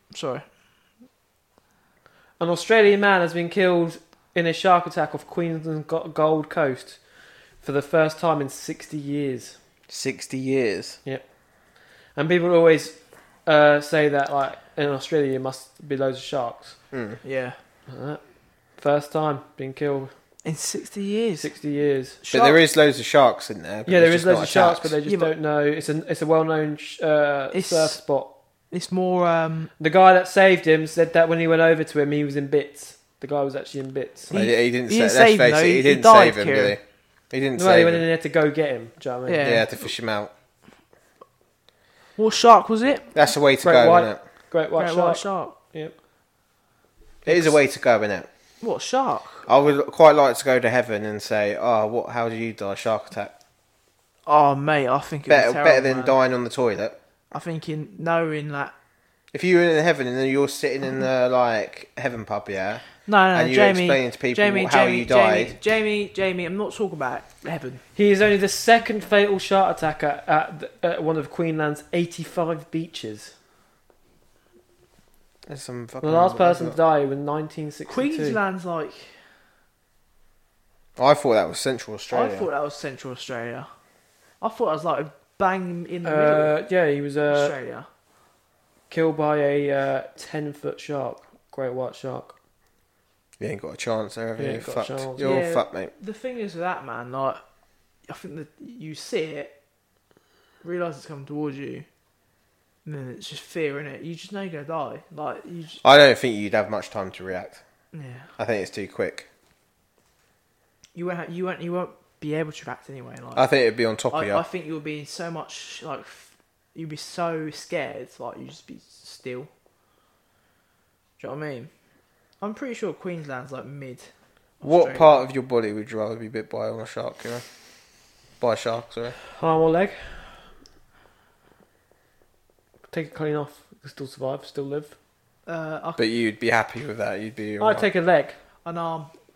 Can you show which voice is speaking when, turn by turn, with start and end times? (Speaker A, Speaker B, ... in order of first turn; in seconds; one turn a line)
Speaker A: 0.1-0.4
Speaker B: 2.4-7.0
Speaker B: 7.6-9.6
Speaker C: 9.9-11.0
Speaker B: 12.2-16.8
Speaker C: 16.9-17.2
Speaker A: 17.2-17.6
Speaker B: 17.9-18.2
Speaker B: 18.8-20.1
Speaker A: 20.4-21.5
Speaker B: 21.4-22.2
Speaker A: 22.2-22.6
Speaker C: 22.3-24.9
Speaker B: 23.9-28.3
Speaker A: 25.1-25.3
Speaker A: 27.5-28.0
Speaker A: 28.7-29.7
Speaker B: 29.8-34.4
Speaker C: 34.3-38.0
Speaker A: 34.3-36.8
Speaker B: 37.5-39.6
Speaker A: 39.3-39.7
Speaker C: 39.4-40.3
Speaker A: 42.2-43.2
Speaker C: 43.1-44.2
Speaker B: 43.6-45.9
Speaker A: 44.8-45.6
Speaker B: 47.3-47.5
Speaker C: 47.3-48.3
Speaker A: 48.6-49.5
Speaker C: 49.5-53.3
Speaker A: 54.3-56.2
Speaker C: 55.3-57.0
Speaker A: 57.3-58.7
Speaker C: 59.3-65.5
Speaker A: 63.1-67.8
Speaker B: 68.0-73.3
Speaker C: 75.5-76.8
Speaker B: 76.0-78.4
Speaker A: 77.9-79.1
Speaker C: 81.0-82.5
Speaker A: 82.1-83.7
Speaker A: 84.4-86.5
Speaker B: 86.0-87.5
Speaker A: 87.3-87.9
Speaker B: 88.9-92.3
Speaker C: 93.4-95.9
Speaker B: 94.4-95.3
Speaker A: 95.2-97.4
Speaker A: 98.1-99.5
Speaker A: 100.6-101.9
Speaker A: 102.8-105.8
Speaker C: 105.8-107.6
Speaker A: 107.9-108.3
Speaker C: 108.4-109.3
Speaker A: 111.0-113.5
Speaker C: 113.4-114.4
Speaker A: 114.1-119.5
Speaker A: 121.2-121.7
Speaker A: 122.4-125.2
Speaker C: 124.6-127.5
Speaker C: 128.4-129.2
Speaker B: 129.3-130.4
Speaker B: 132.9-134.9
Speaker A: 135.5-136.0
Speaker C: 136.0-137.9
Speaker B: 137.6-138.4
Speaker A: 138.7-139.1